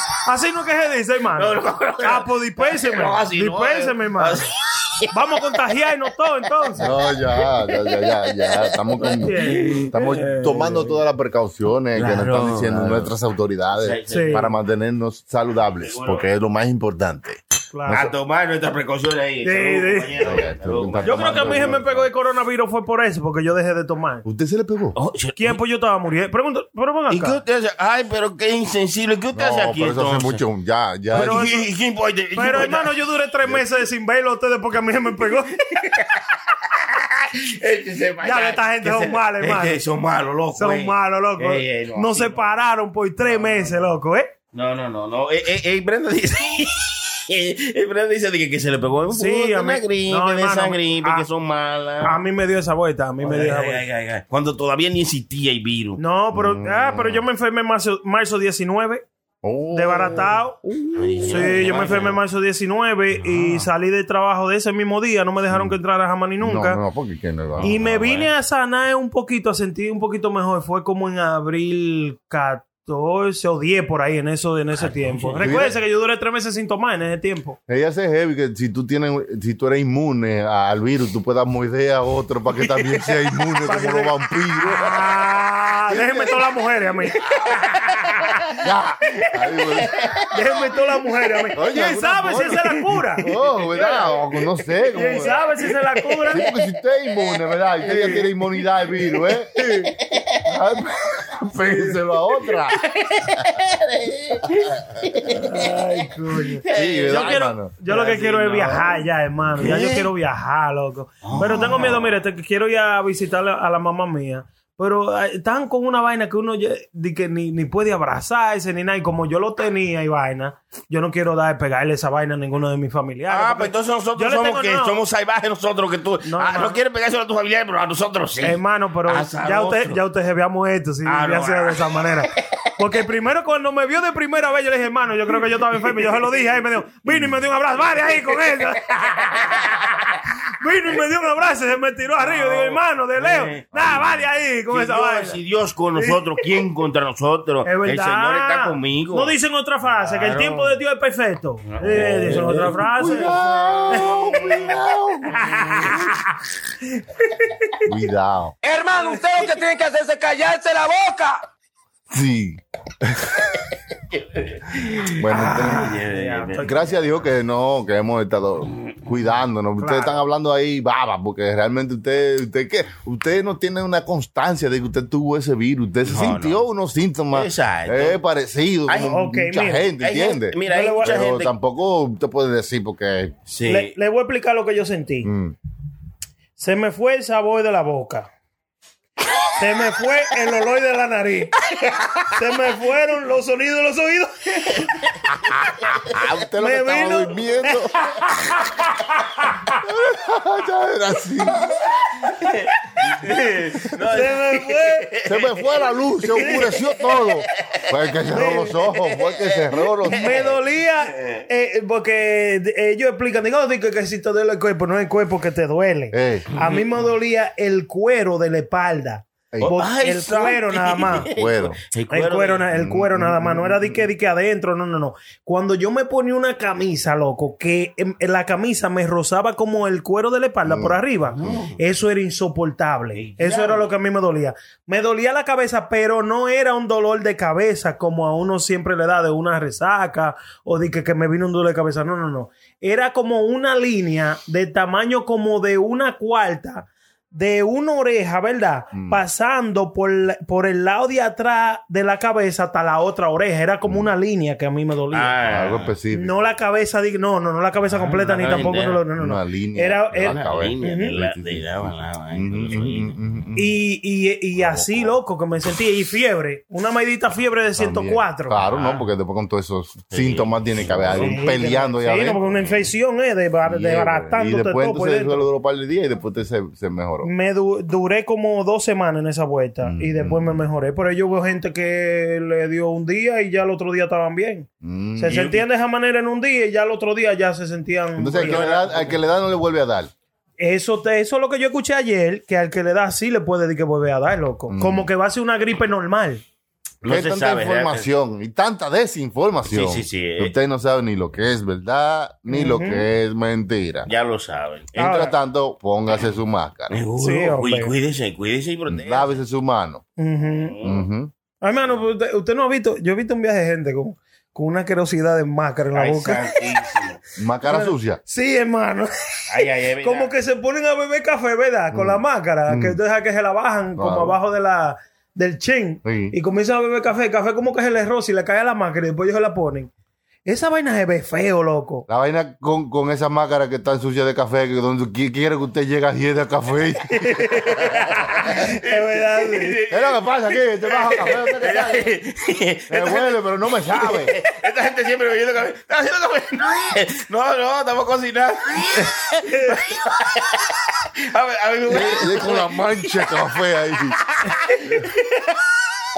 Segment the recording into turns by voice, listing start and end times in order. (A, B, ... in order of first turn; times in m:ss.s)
0:00.2-0:04.4 A
0:01.4-0:05.1 B
0:05.1-0:06.9 A
0:06.8-0:10.7 B
0:06.8-0:18.1 C
0:09.2-0:10.7 A
0:12.0-0:13.1 B
0:13.7-0:14.6 B
0:14.1-0:14.5 A
0:15.8-0:16.2 B
0:17.7-0:18.1 A
0:17.9-0:21.9 B
0:19.4-0:20.3 A
0:20.2-0:22.0 C
0:21.0-0:24.2 A
0:24.2-0:25.0 C
0:24.9-0:25.6 B
0:25.4-0:27.4 A
0:27.1-0:30.4 B
0:29.3-0:31.4 C
0:31.1-0:32.9 B
0:31.1-0:31.6 A
0:32.3-0:35.8 A
0:35.8-0:42.5 B
0:38.2-0:39.8 A
0:40.6-0:44.3 A
0:43.2-0:43.9 B
0:44.5-0:52.2 B
0:49.1-0:51.2 A
0:52.0-0:53.8 A
0:53.2-0:56.0 B
0:56.0-0:59.0 A
0:56.3-0:57.2 C
0:59.4-1:01.6 C
0:59.7-1:00.6 A
1:01.0-1:02.2 B
1:01.2-1:06.8 A
1:03.1-1:03.7 B
1:05.5-1:05.7 C
1:06.4-1:08.3 C
1:07.6-1:17.6 A
1:14.8-1:15.7 B
1:15.4-1:15.7 C
1:17.7-1:25.2 C
1:23.6-1:28.4 A
1:25.9-1:26.4 C
1:27.2-1:28.5 B
1:28.6-1:30.0 C
1:29.2-1:30.3 B
1:30.3-1:34.1 A
1:31.5-1:35.4 C
1:34.9-1:36.5 A
1:36.3-1:39.5 C
1:37.9-1:38.2 A
1:39.5-1:39.9 A
1:40.0-1:40.4 B
1:40.4-1:42.8 C
1:42.7-1:50.1 B
1:45.2-2:05.0 A
1:46.7-1:47.8 C
1:51.2-1:52.1 B
2:03.3-2:10.0 B
2:06.2-2:06.8 A
2:08.4-2:25.4 A
2:11.0-2:12.7 B
2:15.7-2:16.2 B
2:18.0-2:20.1 B
2:22.2-2:24.1 B
2:24.7-2:29.3 B
2:26.0-2:26.4 A
2:27.6-2:33.3 A
2:29.9-2:30.8 B
2:31.7-2:33.2 B
2:31.9-2:35.6 C
2:33.9-2:34.6 A
2:35.4-2:36.0 B
2:35.5-2:36.0 A
2:37.2-2:37.8 A
2:37.8-2:38.5 C
2:38.6-2:41.4 D
2:39.0-2:39.2 A
2:42.1-2:43.6 C
2:44.1-2:46.7 B
2:45.1-2:45.9 C
2:45.3-2:47.0 A
2:46.6-3:03.3 C
2:49.8-2:50.2 A
2:56.0-2:56.6 B
2:57.3-2:58.2 B
2:58.9-2:59.2 B
2:58.9-2:59.9 A
3:00.0-3:01.5 B
3:00.5-3:01.3 A
3:03.5-3:04.0 B
3:03.6-3:05.3 A
3:05.2-3:05.5 C
3:06.6-3:08.3 A
3:09.6-3:11.5 A
3:11.7-3:12.3 B
3:12.3-3:14.9 A
3:15.5-3:18.0 C
3:16.6-3:19.7 A
3:19.8-3:22.3 C
3:22.2-3:25.7 B
3:24.0-3:25.2 A
3:25.2-3:30.5 C
3:26.4-3:27.9 B
3:28.3-3:28.7 A
3:28.8-3:30.5 B
3:30.1-3:41.3 A
3:31.2-3:31.4 B
3:36.1-3:36.5 C
3:36.5-3:37.0 B
3:39.6-3:42.7 B
3:41.3-3:41.8 C
3:42.1-4:15.3 A
3:42.7-3:44.1 C
3:50.6-3:51.6 C
3:51.3-3:51.8 B
3:53.1-3:53.9 B
4:08.9-4:09.2 C
4:13.8-4:14.1 C
4:15.1-4:15.9 B
4:15.4-4:16.3 C
4:16.1-4:21.2 A
4:17.9-4:19.0 B
4:19.2-4:23.8 C
4:20.1-4:23.2 B
4:23.6-4:28.6 A
4:24.6-4:25.1 C
4:27.8-4:32.7 C
4:28.7-4:29.0 B
4:30.1-4:31.4 B
4:31.2-4:35.4 A
4:33.6-4:37.3 C
4:37.2-4:49.1 A
4:39.8-4:40.6 C
4:44.8-4:45.5 C
4:45.3-4:45.6 B
4:48.2-4:50.1 C
4:48.4-4:49.2 B
4:50.6-4:56.4 A
4:54.7-4:55.1 C
4:57.0-4:58.1 B
4:57.0-5:04.1 C
4:59.7-5:00.5 B
5:02.5-5:03.0 A
5:04.0-5:05.2 B
5:04.9-5:07.0 C
5:05.0-5:05.3 A
5:06.9-5:09.4 B
5:07.2-5:07.9 A
5:08.9-5:10.0 C
5:10.2-5:10.7 A
5:10.4-5:11.1 B
5:10.8-5:11.3 C
5:11.6-5:16.5 A
5:15.9-5:17.2 B
5:17.4-5:18.2 C
5:17.7-5:29.9 A
5:19.5-5:20.3 B
5:21.9-5:23.0 C
5:24.0-5:24.4 C
5:26.0-5:26.3 C
5:30.4-5:32.0 A
5:32.1-5:37.5 C
5:37.1-5:39.8 A
5:37.6-5:53.3 B
5:39.9-5:42.2 C
5:42.9-5:44.3 C
5:49.4-5:49.9 A
5:51.9-5:54.2 C
5:54.3-5:55.6 B